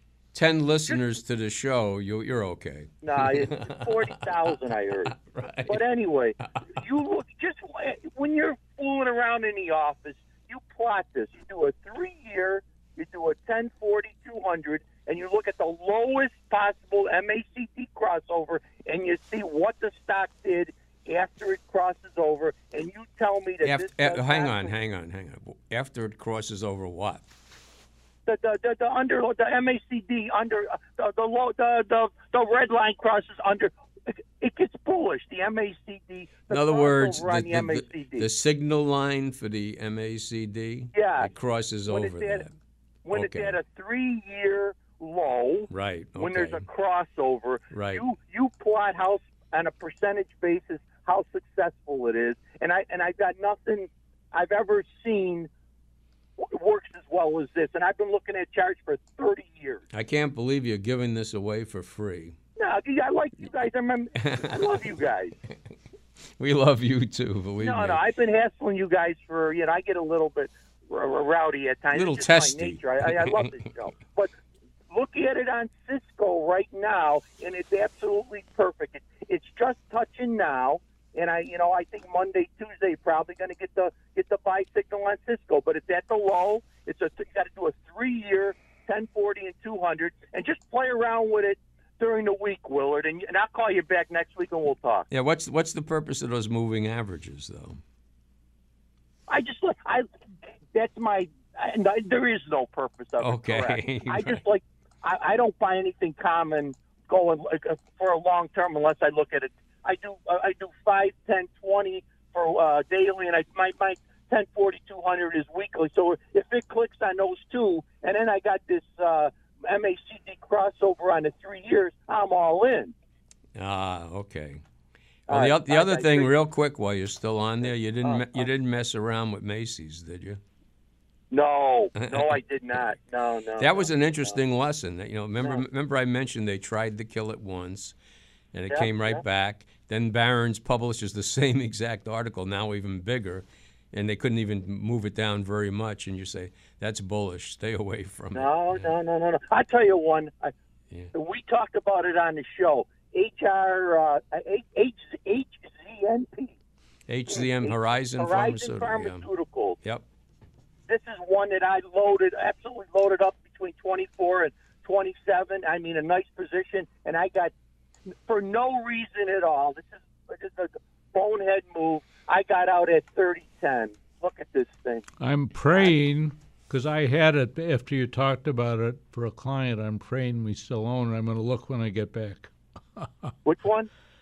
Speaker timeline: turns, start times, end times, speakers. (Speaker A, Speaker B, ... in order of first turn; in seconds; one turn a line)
Speaker A: 0.3-5.8
Speaker B: 3.0-5.1
Speaker B: 5.7-24.7
Speaker A: 23.6-27.3
Speaker B: 28.2-38.3
Speaker A: 36.5-42.5
Speaker B: 40.9-41.3
Speaker B: 41.9-42.4
Speaker B: 43.0-55.5
Speaker A: 43.1-43.6
Speaker A: 45.7-46.6
Speaker A: 47.7-48.0
Speaker B: 56.4-59.8
Speaker A: 59.9-62.4
Speaker B: 62.6-65.3
Speaker A: 64.2-64.8
Speaker A: 66.4-68.0
Speaker B: 67.6-74.3
Speaker A: 71.9-73.5
Speaker B: 74.9-95.0
Speaker A: 95.1-97.8
Speaker B: 99.3-100.0
Speaker B: 100.7-122.9
Speaker A: 103.2-104.4
Speaker A: 123.5-124.6
Speaker A: 125.3-130.4
Speaker B: 125.3-126.3
Speaker B: 128.0-128.5
Speaker B: 131.3-134.4
Speaker A: 132.0-132.4
Speaker A: 133.6-137.9
Speaker A: 138.5-148.9
Speaker B: 138.7-139.2
Speaker B: 148.3-150.5
Speaker B: 151.1-156.5
Speaker A: 157.1-159.3
Speaker B: 157.3-159.8
Speaker B: 160.9-167.5
Speaker B: 168.2-175.1
Speaker C: 175.2-183.3
Speaker B: 183.4-183.9